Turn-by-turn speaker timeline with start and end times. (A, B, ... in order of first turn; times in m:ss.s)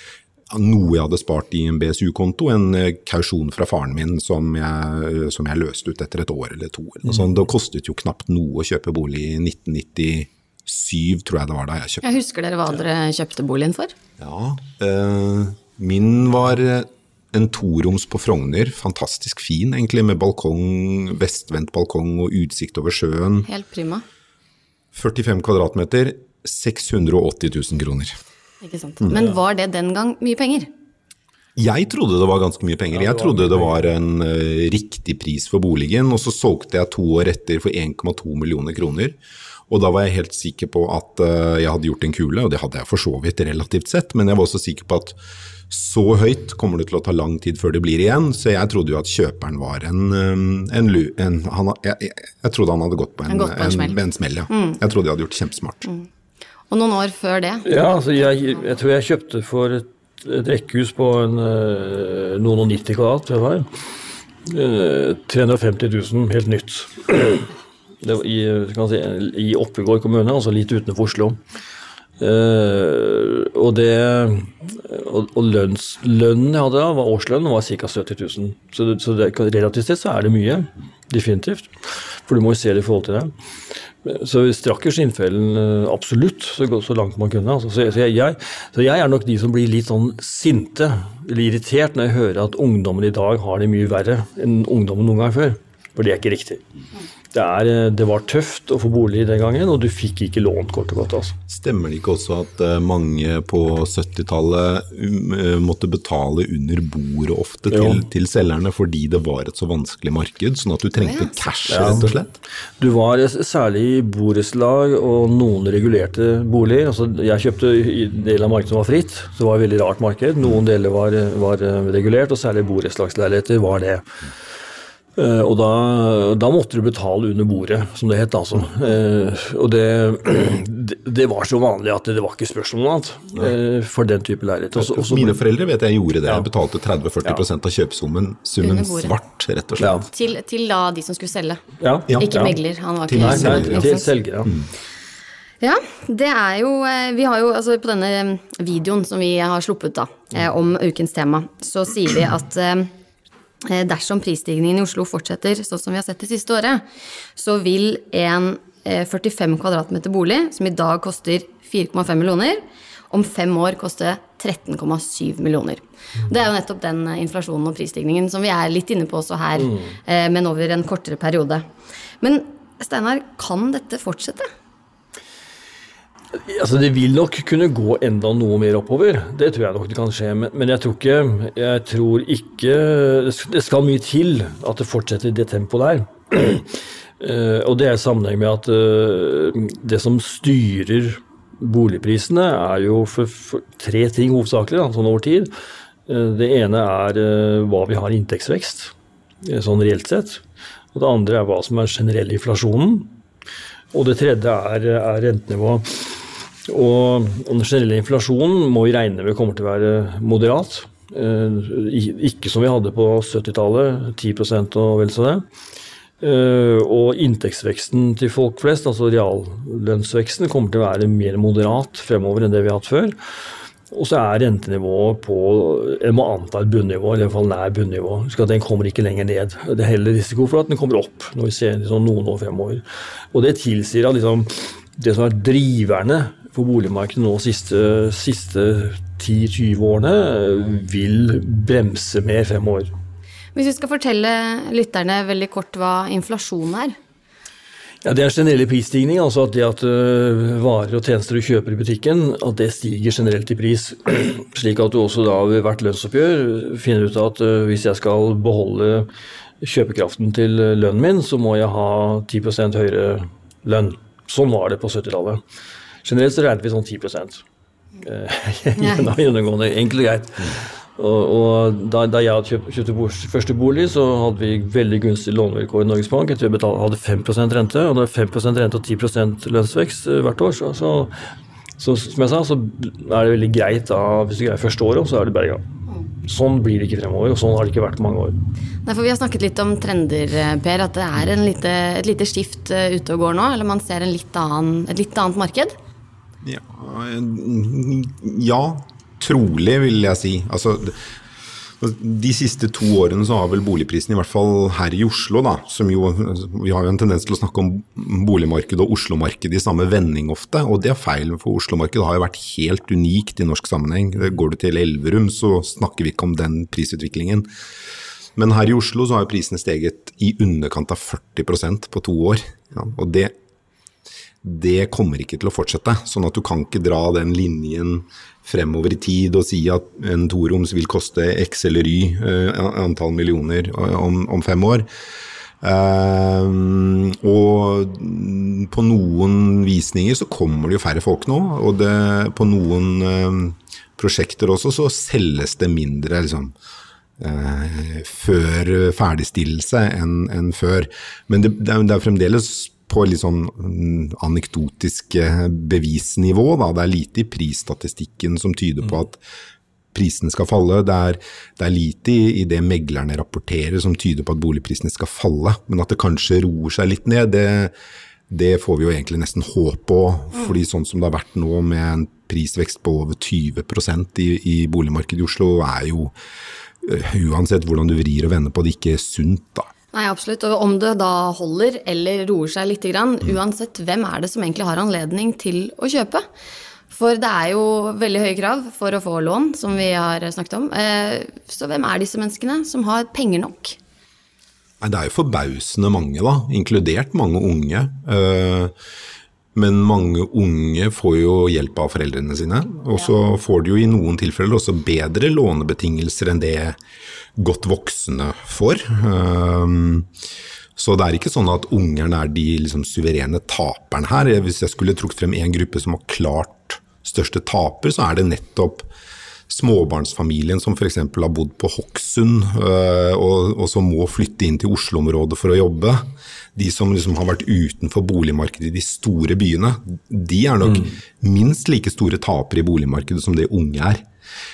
0:00.5-0:12.0 A
0:12.0-0:13.9 B
0:14.2-0:23.5 A
0:23.4-0:24.0 B
0:24.9-0:28.1 A
0:28.6-0:30.7 B
0:31.6-0:39.2 A
0:32.9-0:33.9 C
0:39.7-0:45.2 A
0:45.7-0:55.9 A
0:53.3-0:54.0 B
0:54.5-0:54.8 B
0:56.7-0:57.7 B
0:57.6-1:03.8 C
1:04.4-1:07.5 C
1:08.0-1:11.4 C
1:12.2-1:23.3 C
1:24.0-1:36.6 C
1:37.3-1:41.4 C
1:41.5-1:52.4 A
1:47.7-1:48.0 C
1:51.0-1:51.4 B
1:51.7-1:52.1 C
1:52.8-2:04.0 C
2:05.2-2:15.4 C
2:14.7-2:20.0 A
2:18.6-2:19.1 B
2:19.8-2:20.0 C
2:20.1-2:21.6 B
2:21.8-2:22.6 C
2:22.1-2:22.3 A
2:22.2-2:24.1 B
2:23.1-2:23.9 A
2:23.2-2:24.5 C
2:25.6-2:32.9 B
2:33.6-2:36.8 B
2:37.4-2:51.7 B
2:49.6-2:49.9 C
2:52.2-2:54.5 B
2:56.3-3:15.5 C
3:16.1-3:20.4 C
3:20.9-3:23.1 C
3:23.9-3:35.4 C
3:36.2-3:43.2 C
3:43.9-4:02.9 C
4:03.5-4:07.0 B
4:08.0-4:19.1 C
4:19.6-4:25.4 C
4:26.0-4:27.4 C
4:28.0-4:41.1 C
4:28.8-4:29.1 B
4:41.8-4:45.6 C
4:46.2-4:48.4 C
4:48.8-4:55.8 B
4:56.4-5:01.0 A
5:01.8-5:17.5 A
5:18.4-5:23.3 A
5:24.4-5:34.8 A
5:35.6-5:46.5 A
5:47.2-5:59.2 A
5:59.9-6:07.7 A
6:08.3-6:16.1 A
6:16.8-6:19.7 A
6:19.9-6:26.2 B
6:26.9-6:33.8 B
6:34.8-6:38.7 A
6:39.5-6:46.8 A
6:47.4-6:50.1 A
6:50.8-6:58.9 A
6:59.5-7:14.0 A